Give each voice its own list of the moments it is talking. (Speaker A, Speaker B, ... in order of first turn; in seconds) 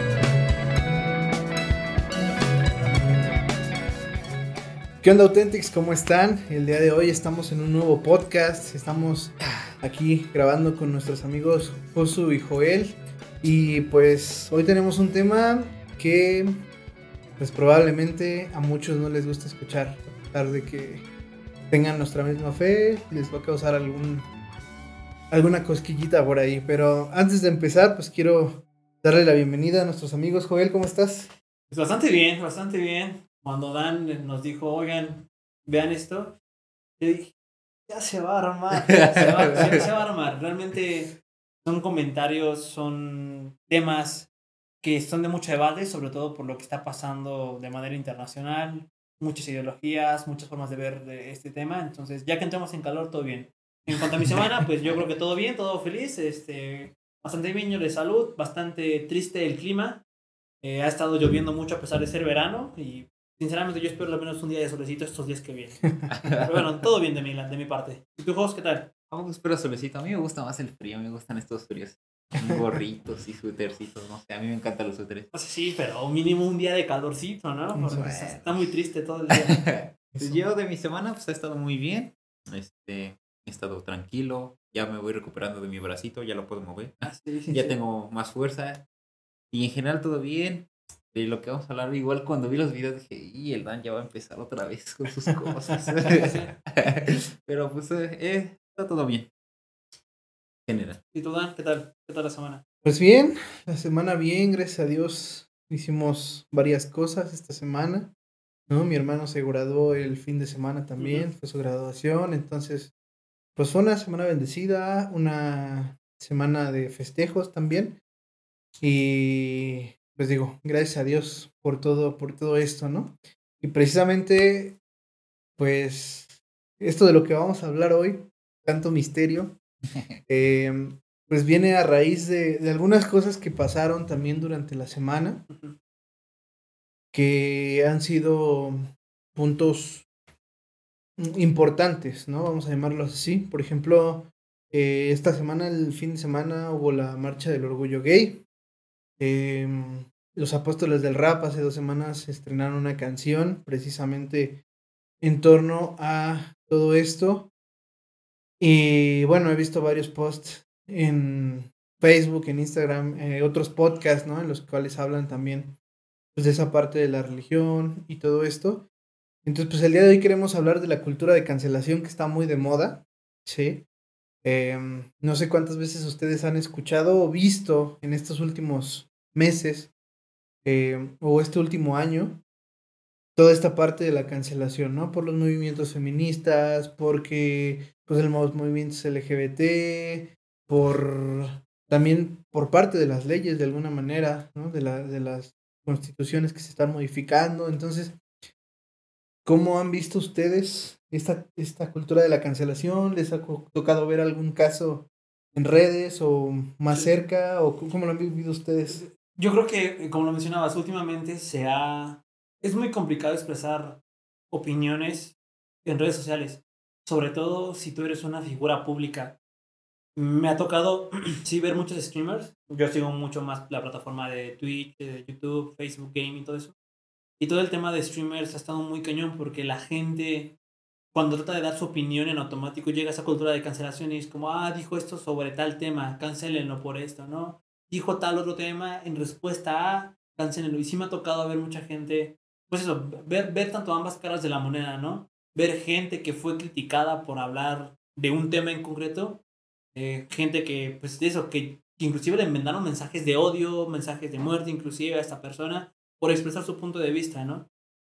Speaker A: 5.0-16.6, 17.4-21.1, 21.7-24.3, 25.3-31.3, 77.7-78.1, 80.1-80.4, 95.4-96.1, 102.8-108.1, 108.7-112.9, 113.5-118.0, 118.8-124.8, 125.6-129.6, 130.3-135.4, 137.1-140.1, 141.2-148.4, 149.2-154.6, 155.2-157.5, 158.6-165.8, 166.3-168.8, 169.4-173.8, 174.4-179.9, 180.6-182.4, 183.3-198.2, 199.4-209.0
Speaker B: 31.7-36.4, 37.0-37.3, 37.9-44.3, 44.8-60.0, 60.6-68.9, 75.3-79.6, 87.0-87.8, 96.1-97.2, 101.1-102.6, 111.0-111.3, 135.5-135.8, 206.9-207.1, 208.9-214.0, 214.5-219.4, 220.2-226.7, 227.4-230.5, 231.1-249.4, 249.9-257.6
Speaker C: 38.9-39.8, 54.3-54.9, 66.1-66.6, 69.1-75.3, 77.9-78.7, 79.3-88.8, 89.5-99.3, 100.7-101.0